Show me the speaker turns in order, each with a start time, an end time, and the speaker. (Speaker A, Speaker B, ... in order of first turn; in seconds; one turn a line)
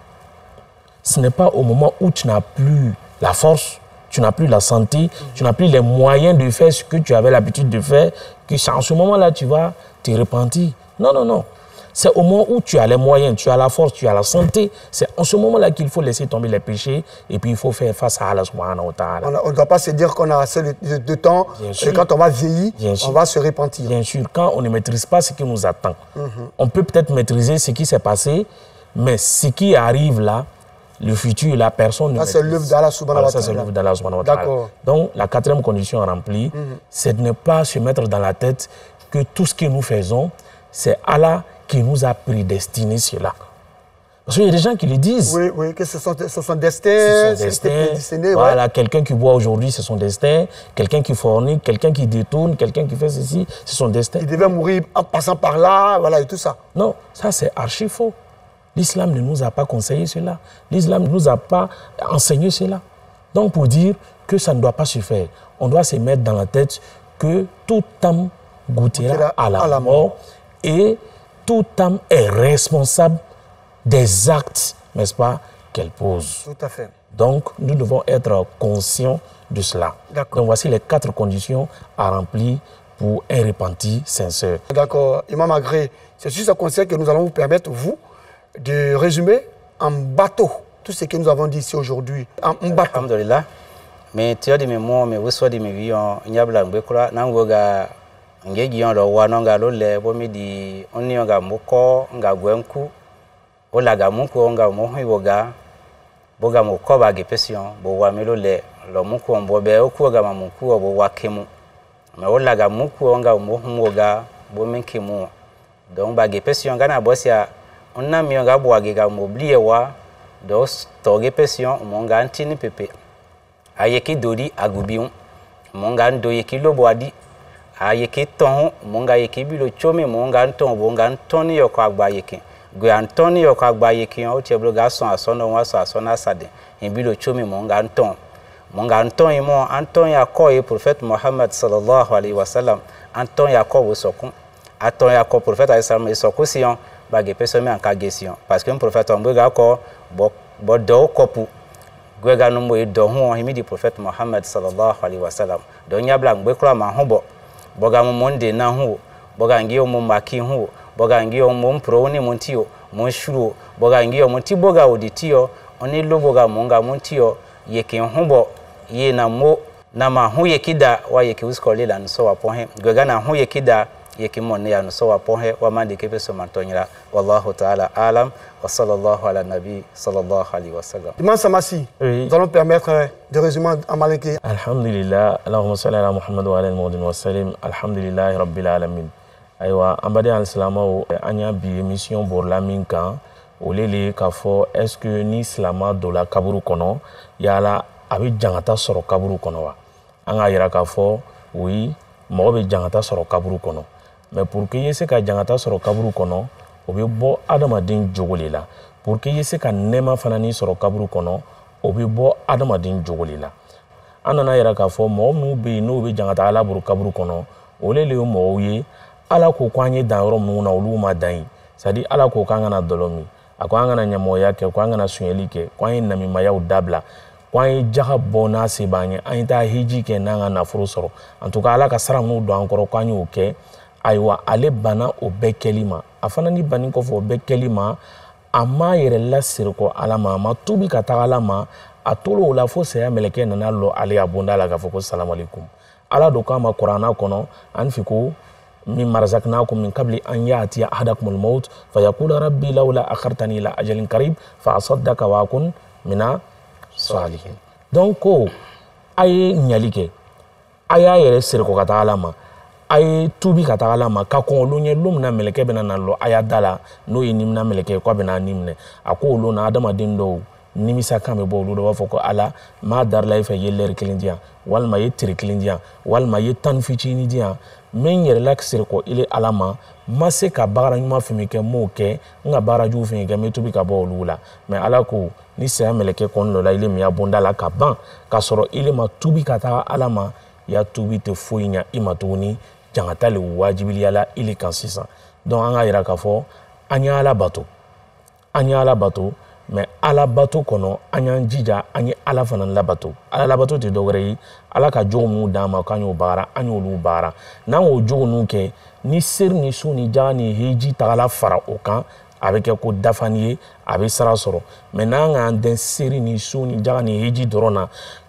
Speaker A: 1.0-19.3
Speaker B: 19.2-23.9
Speaker A: 21.6-22.1
Speaker A: 22.8-23.2
Speaker A: 23.8-26.0
Speaker B: 26.1-26.5
Speaker A: 26.6-30.5
Speaker A: 31.0-43.3
Speaker B: 32.2-33.7
Speaker B: 34.2-34.7
Speaker B: 36.5-36.8
Speaker A: 44.3-45.4
Speaker B: 45.2-48.6
Speaker A: 47.0-54.3
Speaker B: 54.2-56.6
Speaker A: 56.8-58.1
Speaker A: 58.8-62.8
Speaker A: 63.3-73.2
Speaker B: 68.9-70.0
Speaker A: 73.9-76.5
Speaker B: 76.5-76.9
Speaker A: 77.1-84.6
Speaker B: 80.1-80.4
Speaker B: 84.7-88.0
Speaker B: 88.6-93.0
Speaker C: 92.6-93.5
Speaker C: 94.1-97.9
Speaker C: 98.4-102.9
Speaker C: 103.7-105.5
Speaker C: 106.4-111.5
Speaker C: 112.2-115.3
Speaker C: 115.9-122.9
Speaker C: 123.8-125.1
Speaker C: 125.7-127.1
Speaker C: 127.8-138.2
Speaker C: 138.7-151.5
Speaker C: 152.2-157.2
Speaker C: 157.8-181.2
Speaker B: 181.2-184.4
Speaker A: 182.0-182.3
Speaker A: 184.4-199.8
Speaker A: 200.3-213.5
Speaker A: 214.2-238.0
Speaker A: 238.5-248.4
Speaker A: 248.9-256.4
Speaker A: 257.0-258.5
Speaker A: 259.2-260.1
Speaker A: 260.9-262.4
Speaker A: 262.9-297.7
Speaker A: 298.6-317.9